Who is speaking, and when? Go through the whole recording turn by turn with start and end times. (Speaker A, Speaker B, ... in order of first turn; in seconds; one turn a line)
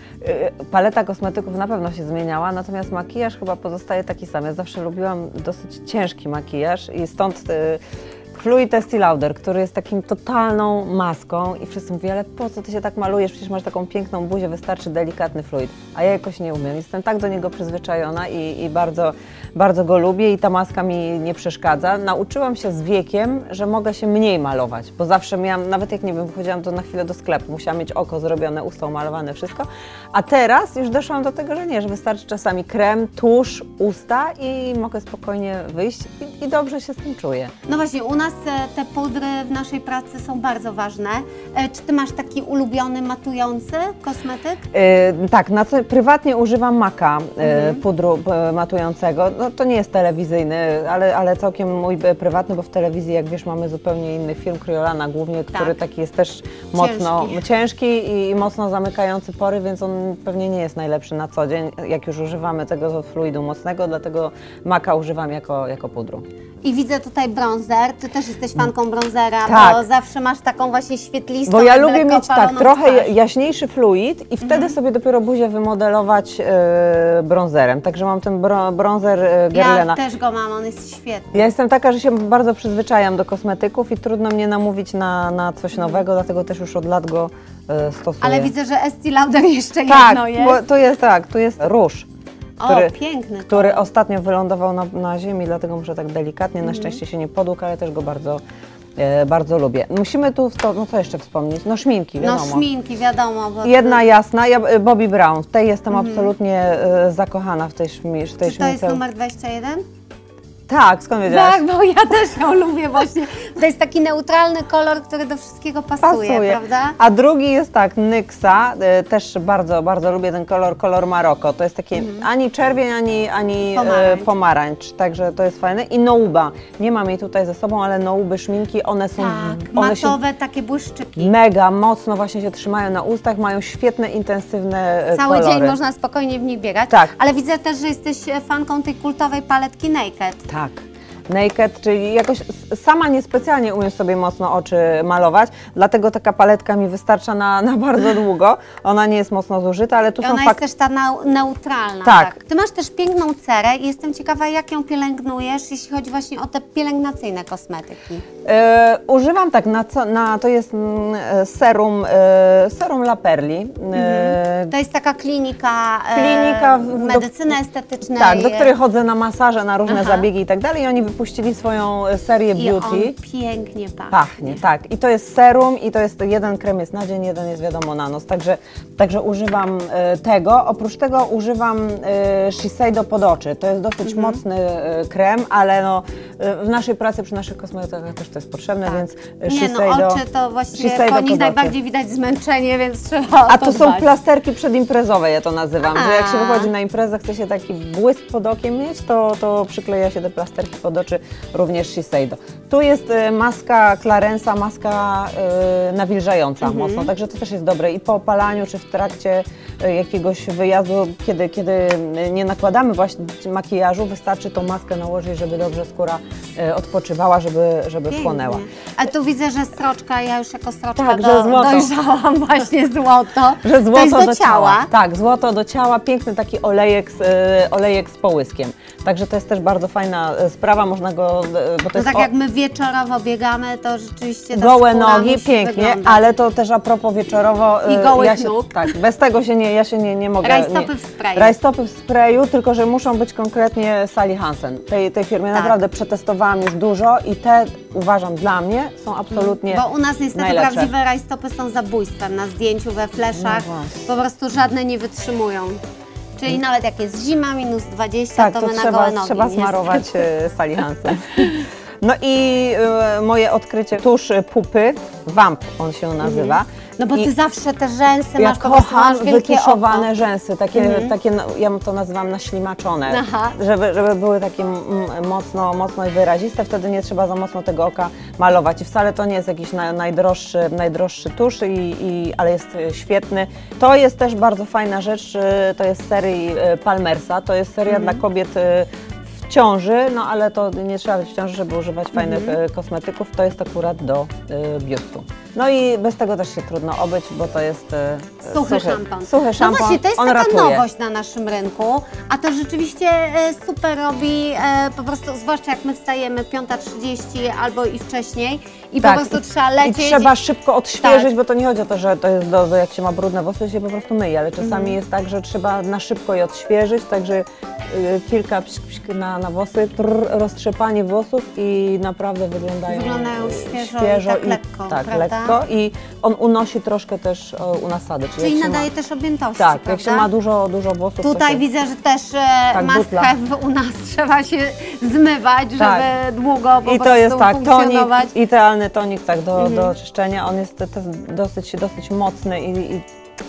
Speaker A: 0.2-7.8
Speaker A: 8.3-37.5
Speaker B: 37.6-44.6
Speaker A: 44.7-66.2
Speaker B: 47.4-47.8
Speaker B: 55.5-55.8
Speaker B: 56.8-57.4
Speaker B: 66.6-73.1
Speaker A: 69.5-69.8
Speaker A: 71.5-80.0
Speaker B: 74.4-74.8
Speaker B: 79.5-81.5
Speaker A: 81.3-88.5
Speaker B: 88.2-90.6
Speaker A: 89.9-92.1
Speaker B: 92.6-93.8
Speaker A: 92.6-92.9
Speaker A: 93.5-98.4
Speaker B: 96.6-97.0
Speaker A: 99.0-102.6
Speaker B: 102.2-104.0
Speaker A: 103.6-109.0
Speaker B: 105.9-106.3
Speaker B: 108.4-109.8
Speaker A: 110.7-111.6
Speaker B: 111.2-117.0
Speaker A: 116.0-130.2
Speaker B: 121.9-122.3
Speaker B: 123.7-124.3
Speaker B: 129.2-131.3
Speaker A: 131.2-135.8
Speaker B: 135.1-140.4
Speaker A: 136.9-137.1
Speaker A: 140.5-150.6
Speaker B: 150.2-158.2
Speaker A: 152.0-152.3
Speaker A: 158.4-164.7
Speaker B: 163.9-168.7
Speaker A: 166.1-167.6
Speaker A: 168.1-173.2
Speaker B: 169.9-170.3
Speaker B: 172.5-174.6
Speaker A: 174.1-190.2
Speaker B: 184.0-184.4
Speaker B: 188.9-194.1
Speaker A: 190.7-191.7
Speaker A: 193.5-218.6
Speaker B: 195.8-196.7
Speaker B: 206.6-207.1
Speaker B: 218.1-224.9
Speaker A: 220.9-221.9
Speaker A: 223.6-232.3
Speaker B: 231.9-236.3
Speaker A: 234.5-250.9
Speaker B: 237.8-239.0
Speaker B: 240.4-241.6
Speaker B: 245.5-245.8
Speaker B: 249.3-255.8
Speaker A: 253.3-254.0
Speaker B: 256.4-260.2
Speaker A: 258.4-267.3
Speaker B: 266.2-270.1
Speaker A: 268.4-288.9
Speaker B: 270.8-271.1
Speaker B: 273.1-273.6
Speaker B: 287.9-288.2
Speaker A: 289.4-300.8
Speaker B: 292.1-292.6
Speaker B: 298.5-310.3
Speaker A: 309.0-328.9
Speaker B: 311.0-311.3
Speaker B: 314.6-315.0
Speaker B: 322.9-325.6
Speaker B: 328.4-330.3
Speaker A: 329.6-331.6
Speaker B: 331.2-338.3
Speaker A: 332.7-333.3
Speaker A: 335.8-336.1
Speaker A: 336.8-343.0
Speaker B: 339.6-339.9